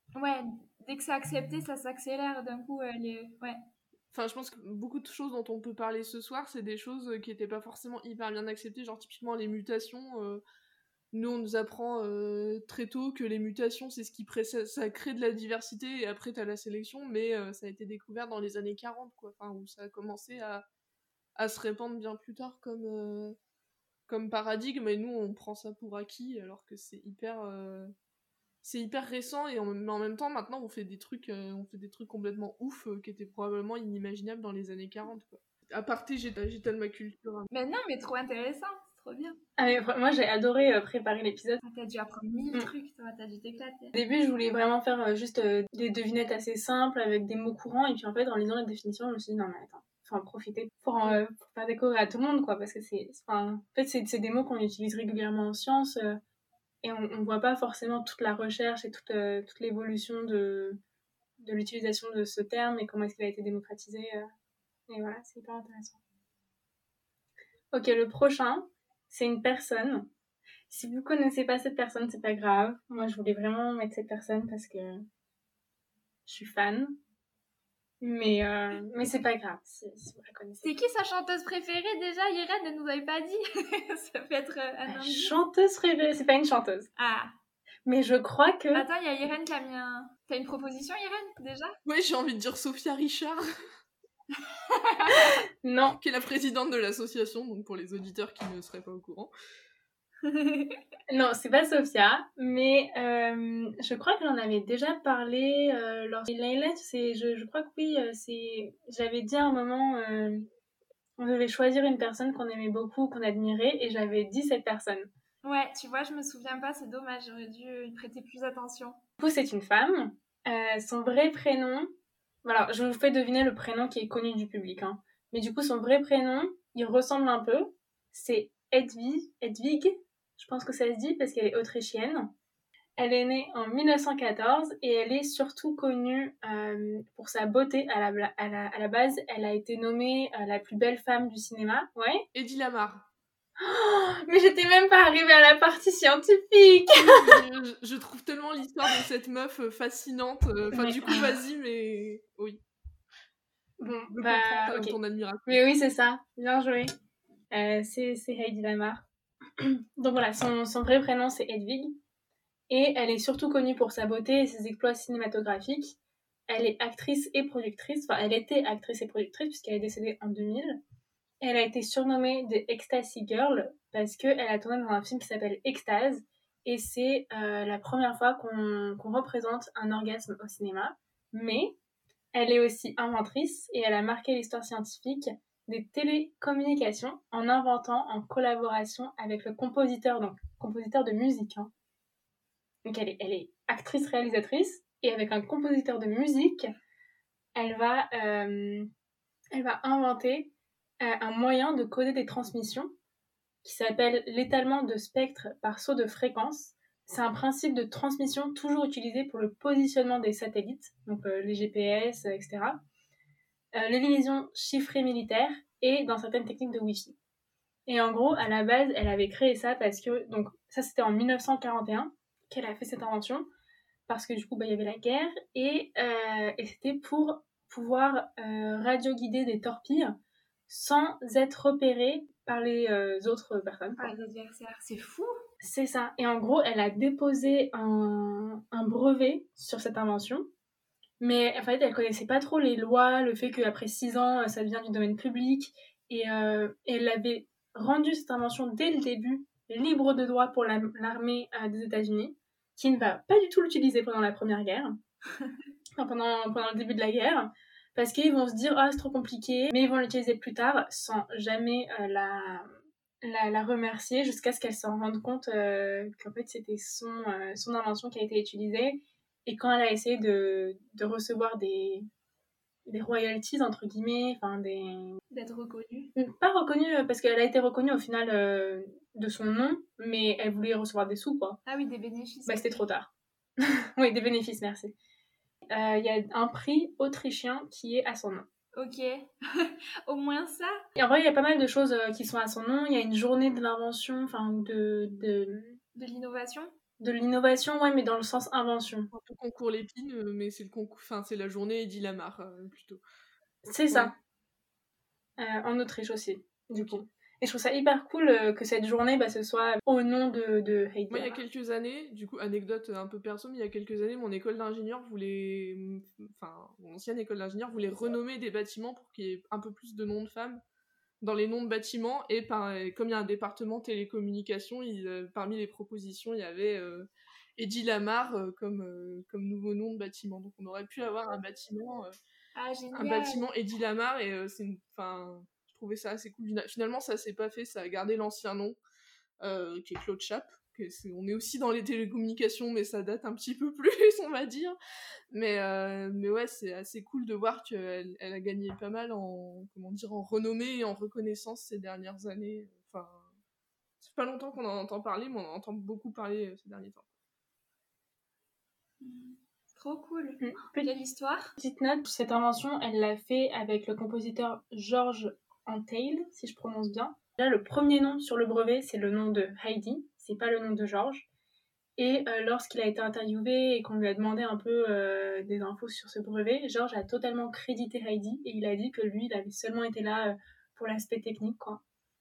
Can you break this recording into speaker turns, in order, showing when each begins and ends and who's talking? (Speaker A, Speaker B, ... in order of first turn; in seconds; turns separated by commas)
Speaker A: 0.1-3.6, Speaker B: 4.1-10.4, Speaker B: 11.1-20.6, Speaker B: 21.4-23.4, Speaker B: 24.1-27.9, Speaker B: 28.6-37.5, Speaker A: 37.5-39.4, Speaker C: 39.6-41.6, Speaker A: 41.6-43.9, Speaker C: 43.9-56.2, Speaker C: 56.8-60.8, Speaker C: 61.4-64.3, Speaker C: 64.9-66.0, Speaker C: 67.7-70.1, Speaker C: 70.7-75.0, Speaker C: 76.3-77.0, Speaker C: 78.0-80.7, Speaker A: 80.6-85.4, Speaker C: 84.9-86.9, Speaker A: 87.0-87.3, Speaker C: 87.9-88.9, Speaker A: 88.7-91.7, Speaker B: 91.9-93.4, Speaker A: 94.4-95.4, Speaker C: 95.1-96.0, Speaker B: 96.0-99.3, Speaker A: 100.2-100.8, Speaker C: 101.1-110.5, Speaker C: 111.2-115.1, Speaker A: 115.4-119.0, Speaker C: 119.2-121.9, Speaker C: 122.5-132.3, Speaker C: 133.0-142.2, Speaker B: 142.3-143.1, Speaker C: 143.6-147.4, Speaker B: 146.9-152.6, Speaker C: 150.7-151.3, Speaker C: 153.8-156.9, Speaker B: 154.2-155.6, Speaker C: 157.5-159.0, Speaker C: 159.6-161.9, Speaker C: 162.7-166.0, Speaker C: 166.5-170.8, Speaker C: 171.4-181.7, Speaker C: 182.3-191.7, Speaker C: 192.8-196.7, Speaker C: 197.6-198.9, Speaker C: 199.5-200.5, Speaker C: 201.0-202.9, Speaker C: 203.6-212.8, Speaker C: 213.7-217.2, Speaker C: 217.9-223.5, Speaker C: 224.1-230.2, Speaker C: 230.7-234.1, Speaker A: 234.0-235.3, Speaker C: 235.6-240.4, Speaker C: 241.2-255.0, Speaker C: 256.0-262.7, Speaker C: 263.2-272.1, Speaker C: 272.9-275.2, Speaker A: 275.3-276.1, Speaker C: 276.2-281.6, Speaker A: 281.7-282.8, Speaker C: 282.5-284.9, Speaker C: 285.7-288.4, Speaker A: 288.8-290.8, Speaker C: 291.0-295.8, Speaker A: 295.9-296.7, Speaker C: 297.0-299.1, Speaker B: 299.1-303.0, Speaker C: 303.6-304.1, Speaker B: 303.9-304.2, Speaker C: 305.4-311.4, Speaker B: 311.1-320.6, Speaker B: 321.2-332.1, Speaker A: 332.6-333.5, Speaker B: 332.9-338.8, Speaker B: 339.4-344.8, Speaker B: 345.3-353.3, Speaker B: 354.0-357.1, Speaker A: 359.0-361.5, Speaker C: 360.4-360.9, Speaker C: 361.6-371.3, Speaker C: 372.0-381.8